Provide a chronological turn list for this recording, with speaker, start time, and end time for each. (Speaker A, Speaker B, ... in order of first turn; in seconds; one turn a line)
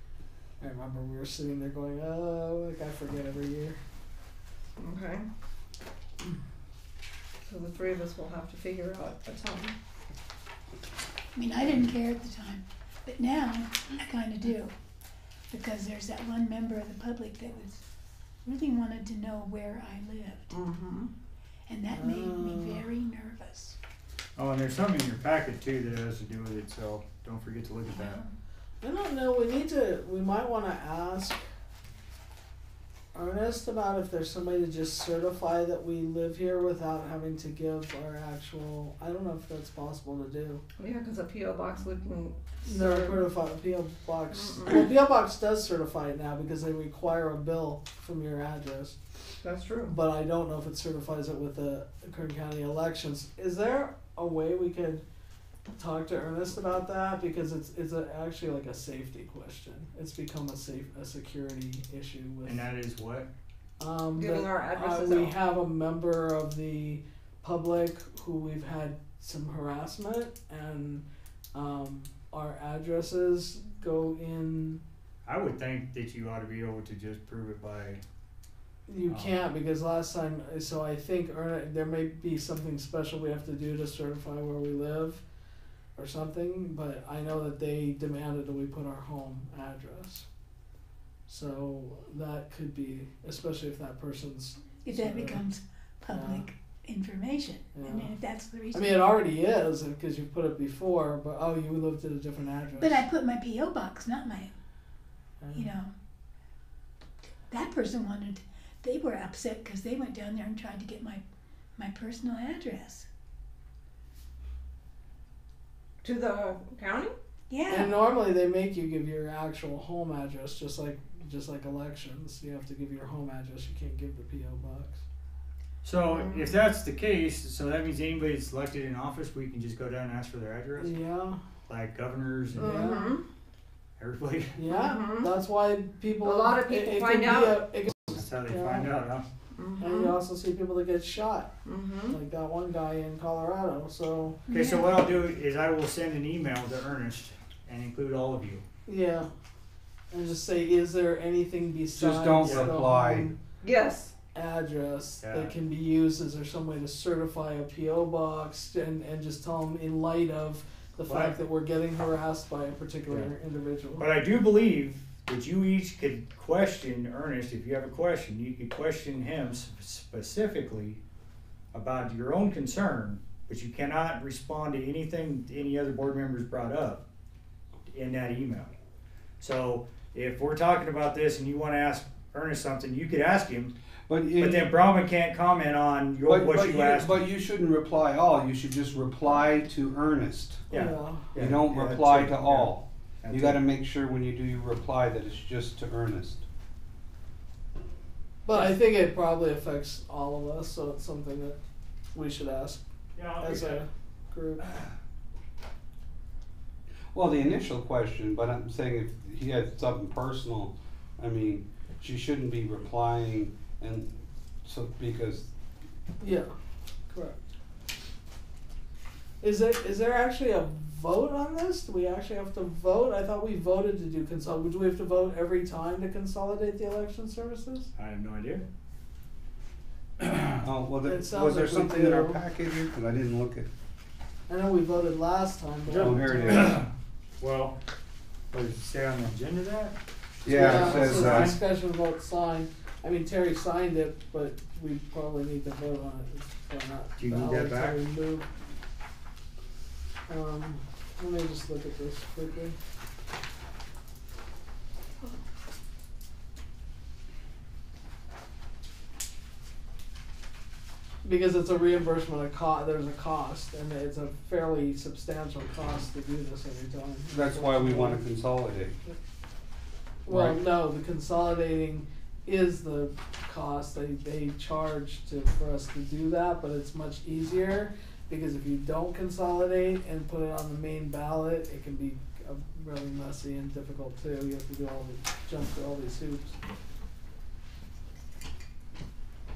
Speaker A: 0.6-3.8
Speaker B: 4.8-5.3
Speaker B: 7.5-9.8
Speaker C: 11.3-14.7
Speaker C: 15.5-17.8
Speaker C: 18.4-20.5
Speaker B: 20.5-21.1
Speaker C: 21.7-23.8
Speaker A: 21.9-22.9
Speaker D: 24.4-28.2
Speaker C: 27.9-28.3
Speaker A: 28.8-31.4
Speaker A: 33.1-40.6
Speaker B: 40.8-43.2
Speaker A: 42.6-49.0
Speaker B: 49.4-49.9
Speaker A: 49.9-55.0
Speaker A: 55.7-62.7
Speaker D: 62.4-63.3
Speaker A: 63.8-74.8
Speaker B: 64.1-65.4
Speaker D: 75.2-78.0
Speaker A: 78.9-85.2
Speaker D: 79.1-79.4
Speaker A: 86.0-90.3
Speaker A: 91.3-95.4
Speaker C: 94.8-99.0
Speaker A: 96.1-96.5
Speaker A: 97.8-98.2
Speaker A: 98.7-103.0
Speaker C: 102.8-104.5
Speaker A: 105.4-105.7
Speaker C: 105.5-105.9
Speaker C: 107.5-111.2
Speaker C: 111.8-113.1
Speaker B: 116.0-117.2
Speaker C: 117.5-117.9
Speaker A: 117.7-125.0
Speaker D: 125.8-131.0
Speaker B: 126.1-126.5
Speaker A: 130.8-131.4
Speaker D: 131.7-132.9
Speaker A: 132.6-133.2
Speaker B: 132.6-133.2
Speaker D: 134.0-134.6
Speaker A: 134.6-138.9
Speaker B: 134.6-135.3
Speaker B: 136.2-137.7
Speaker D: 138.1-139.2
Speaker B: 139.6-140.2
Speaker A: 139.8-141.5
Speaker B: 141.7-142.2
Speaker A: 142.1-144.4
Speaker C: 144.5-144.9
Speaker D: 144.5-148.6
Speaker A: 148.9-149.3
Speaker A: 150.1-153.4
Speaker E: 152.0-153.3
Speaker D: 152.4-152.7
Speaker B: 153.6-154.1
Speaker A: 154.3-164.1
Speaker D: 155.2-155.6
Speaker D: 161.1-161.4
Speaker D: 164.0-171.0
Speaker D: 171.7-177.0
Speaker D: 177.9-178.7
Speaker D: 179.4-183.7
Speaker E: 184.1-184.7
Speaker D: 184.4-187.2
Speaker E: 186.2-190.6
Speaker D: 190.7-193.6
Speaker A: 190.7-191.3
Speaker E: 191.3-196.4
Speaker A: 198.5-201.6
Speaker A: 202.1-202.8
Speaker D: 203.2-203.8
Speaker A: 203.4-204.6
Speaker D: 204.6-204.9
Speaker E: 207.1-214.1
Speaker E: 214.6-215.5
Speaker A: 216.2-216.5
Speaker A: 217.1-217.4
Speaker A: 219.4-227.9
Speaker D: 228.0-228.7
Speaker E: 230.4-233.7
Speaker A: 231.0-232.4
Speaker A: 234.5-236.8
Speaker D: 235.9-237.8
Speaker E: 236.0-236.8
Speaker D: 238.5-241.6
Speaker E: 240.4-241.6
Speaker A: 240.5-248.5
Speaker D: 247.2-248.0
Speaker A: 250.3-252.8
Speaker A: 261.2-268.2
Speaker E: 267.3-269.0
Speaker A: 270.2-286.6
Speaker E: 270.3-270.6